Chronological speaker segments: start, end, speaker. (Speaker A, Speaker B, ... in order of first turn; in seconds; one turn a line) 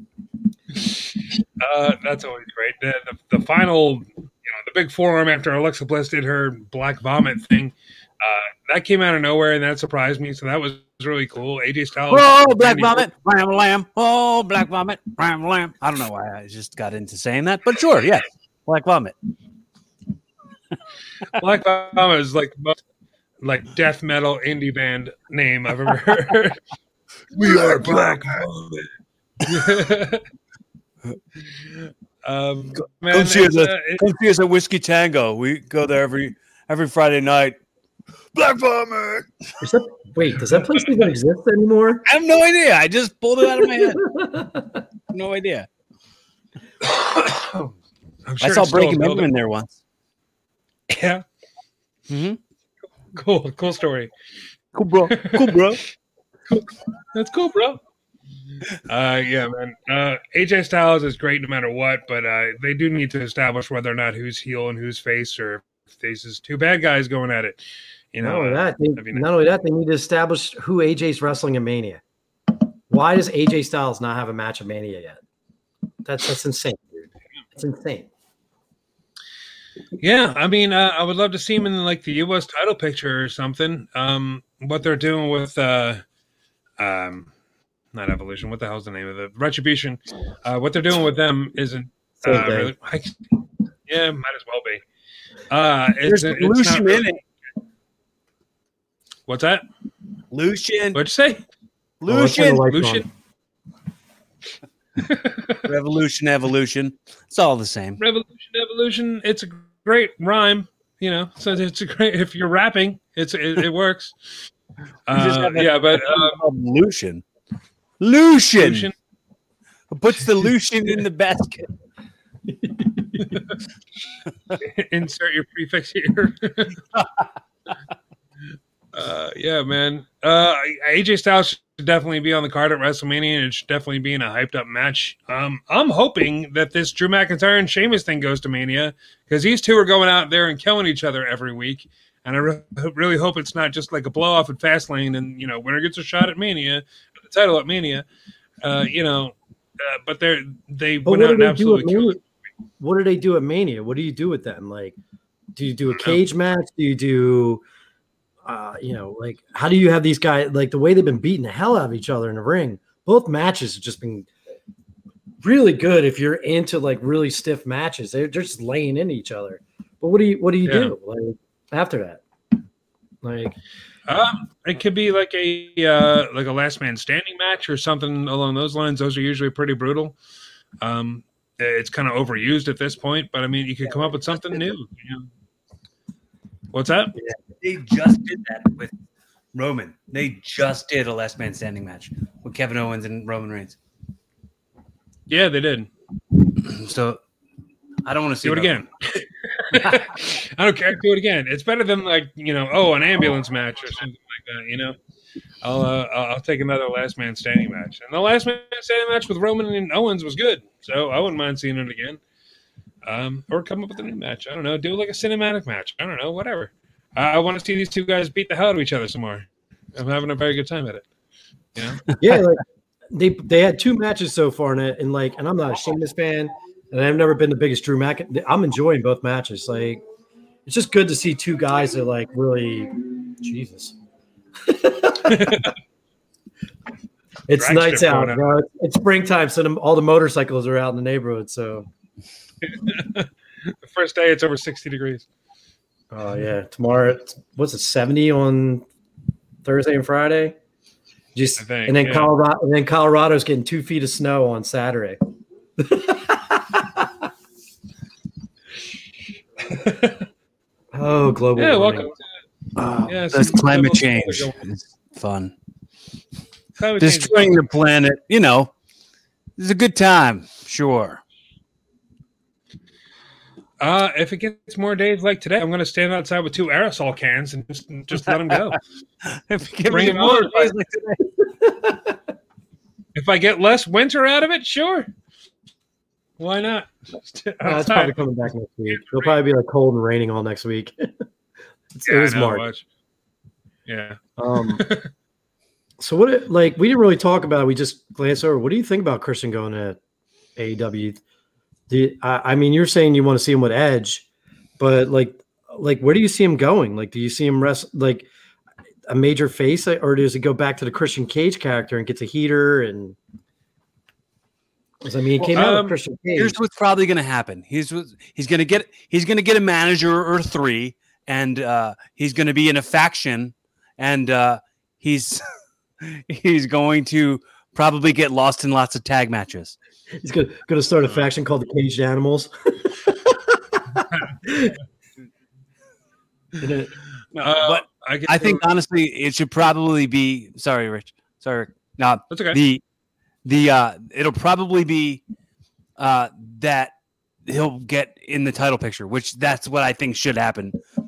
Speaker A: 1.6-13.0
Speaker B: 12.1-19.1
Speaker A: 21.3-22.8
Speaker A: 23.4-26.6
Speaker A: 27.3-28.9
Speaker B: 27.3-28.4
Speaker A: 29.4-30.2
Speaker A: 32.2-34.0
Speaker B: 33.1-37.6
Speaker B: 38.3-39.3
Speaker C: 39.6-42.0
Speaker B: 42.0-44.1
Speaker C: 43.6-44.8
Speaker B: 45.1-45.7
Speaker A: 48.2-49.3
Speaker B: 48.4-49.8
Speaker A: 50.9-51.2
Speaker B: 52.1-52.4
Speaker A: 53.1-54.1
Speaker B: 54.7-55.8
Speaker A: 55.1-55.7
Speaker A: 57.1-57.8
Speaker A: 58.8-69.2
Speaker C: 68.2-72.0
Speaker C: 72.9-75.2
Speaker C: 76.0-78.1
Speaker A: 80.0-86.0
Speaker A: 86.8-87.3
Speaker A: 87.9-93.1
Speaker C: 92.2-92.7
Speaker A: 93.9-94.8
Speaker A: 95.5-97.1
Speaker B: 96.1-97.2
Speaker A: 99.3-99.6
Speaker B: 100.3-101.0
Speaker A: 100.9-101.4
Speaker B: 102.0-102.7
Speaker C: 102.1-103.0
Speaker A: 102.6-103.0
Speaker A: 105.0-105.6
Speaker B: 105.6-108.0
Speaker A: 108.0-114.2
Speaker A: 115.1-116.4
Speaker B: 115.1-117.2
Speaker B: 118.0-118.9
Speaker A: 118.6-118.9
Speaker B: 119.9-121.7
Speaker C: 122.5-123.3
Speaker A: 124.6-126.8
Speaker B: 127.0-127.2
Speaker A: 128.9-148.1
Speaker A: 148.6-152.2
Speaker C: 151.0-152.2
Speaker C: 152.8-155.0
Speaker C: 155.6-157.6
Speaker C: 158.4-164.3
Speaker C: 165.4-172.2
Speaker A: 170.7-170.9
Speaker C: 173.2-173.6
Speaker A: 174.1-180.2
Speaker A: 180.8-185.2
Speaker A: 186.7-187.1
Speaker B: 187.6-188.9
Speaker B: 189.5-193.8
Speaker A: 195.3-195.9
Speaker B: 196.6-197.2
Speaker B: 198.0-198.7
Speaker A: 198.4-204.9
Speaker B: 199.7-200.1
Speaker A: 205.6-212.2
Speaker A: 213.0-221.1
Speaker A: 221.8-222.0
Speaker C: 222.1-230.0
Speaker C: 230.7-233.9
Speaker C: 234.6-235.7
Speaker A: 235.3-235.7
Speaker C: 237.5-241.9
Speaker A: 237.6-238.4
Speaker A: 242.6-245.2
Speaker C: 246.1-248.9
Speaker C: 249.6-250.6
Speaker C: 251.3-255.2
Speaker A: 251.6-252.3
Speaker C: 255.8-257.2
Speaker A: 259.7-260.2
Speaker C: 260.9-262.1
Speaker A: 261.6-262.1
Speaker B: 262.8-265.5
Speaker A: 263.1-264.6
Speaker A: 266.8-267.6
Speaker B: 267.0-268.7
Speaker B: 269.6-271.2
Speaker A: 273.8-278.8
Speaker B: 278.2-281.2
Speaker A: 279.9-280.7
Speaker C: 281.4-282.2
Speaker A: 283.1-285.1
Speaker A: 286.4-288.1
Speaker C: 287.6-291.2
Speaker A: 288.9-289.3
Speaker C: 292.0-292.6
Speaker A: 292.1-292.8
Speaker A: 293.9-295.1
Speaker C: 294.4-294.8
Speaker C: 296.0-300.0
Speaker C: 300.6-301.2
Speaker C: 301.9-304.2
Speaker C: 304.8-308.3
Speaker C: 309.1-313.2
Speaker C: 315.0-316.6
Speaker A: 315.5-315.9
Speaker B: 316.4-325.4
Speaker B: 326.0-329.8
Speaker C: 330.2-334.7
Speaker C: 336.6-336.9
Speaker A: 337.4-338.6
Speaker B: 337.4-342.8
Speaker A: 342.3-342.6
Speaker B: 343.4-345.2
Speaker B: 346.0-346.9
Speaker B: 347.4-350.8